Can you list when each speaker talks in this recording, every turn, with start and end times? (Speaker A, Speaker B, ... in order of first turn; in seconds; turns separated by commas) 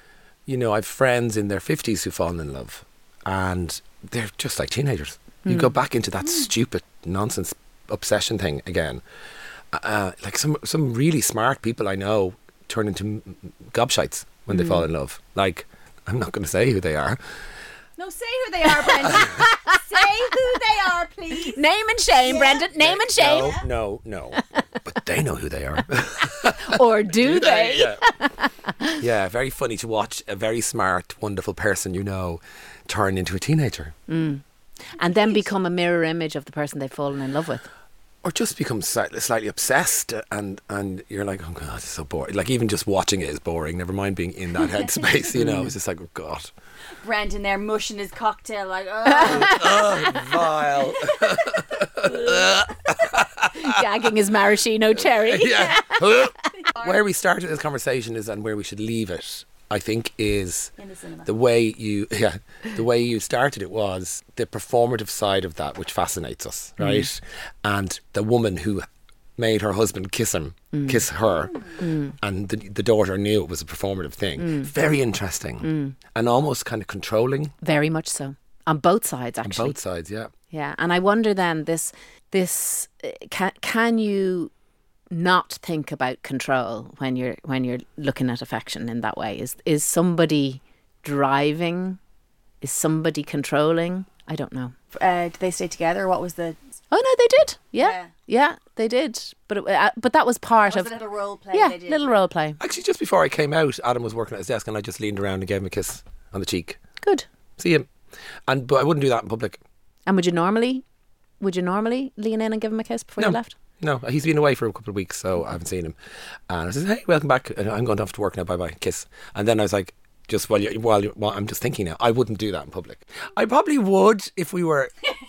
Speaker A: 0.5-9.0, Speaker B: 5.4-5.7, Speaker A: 9.7-17.2, Speaker C: 18.0-21.6, Speaker B: 19.0-19.8, Speaker B: 21.4-23.6, Speaker C: 22.3-22.6, Speaker A: 22.8-28.1, Speaker C: 23.2-23.6, Speaker B: 26.5-29.0, Speaker A: 29.0-33.9, Speaker B: 34.1-37.7, Speaker A: 38.2-46.5, Speaker B: 45.4-45.7, Speaker C: 47.0-50.0, Speaker A: 49.2-53.8, Speaker B: 49.4-49.8, Speaker B: 53.5-56.0, Speaker A: 55.0-68.9, Speaker C: 60.8-61.3, Speaker B: 66.8-67.1, Speaker A: 69.4-77.5, Speaker B: 70.7-71.0, Speaker C: 71.4-71.7, Speaker B: 71.8-72.1, Speaker B: 74.4-74.7, Speaker B: 75.6-75.9, Speaker B: 77.6-79.8, Speaker A: 79.4-80.3, Speaker B: 80.5-84.5, Speaker B: 85.1-92.0, Speaker B: 92.6-94.7, Speaker C: 94.9-96.6, Speaker B: 96.9-100.9, Speaker C: 97.8-98.1, Speaker C: 100.6-102.2, Speaker B: 101.5-102.6, Speaker A: 102.6-106.8, Speaker A: 107.6-107.9, Speaker A: 108.5-109.6, Speaker B: 110.1-110.8, Speaker B: 111.4-113.5, Speaker A: 113.2-116.0, Speaker A: 116.5-124.9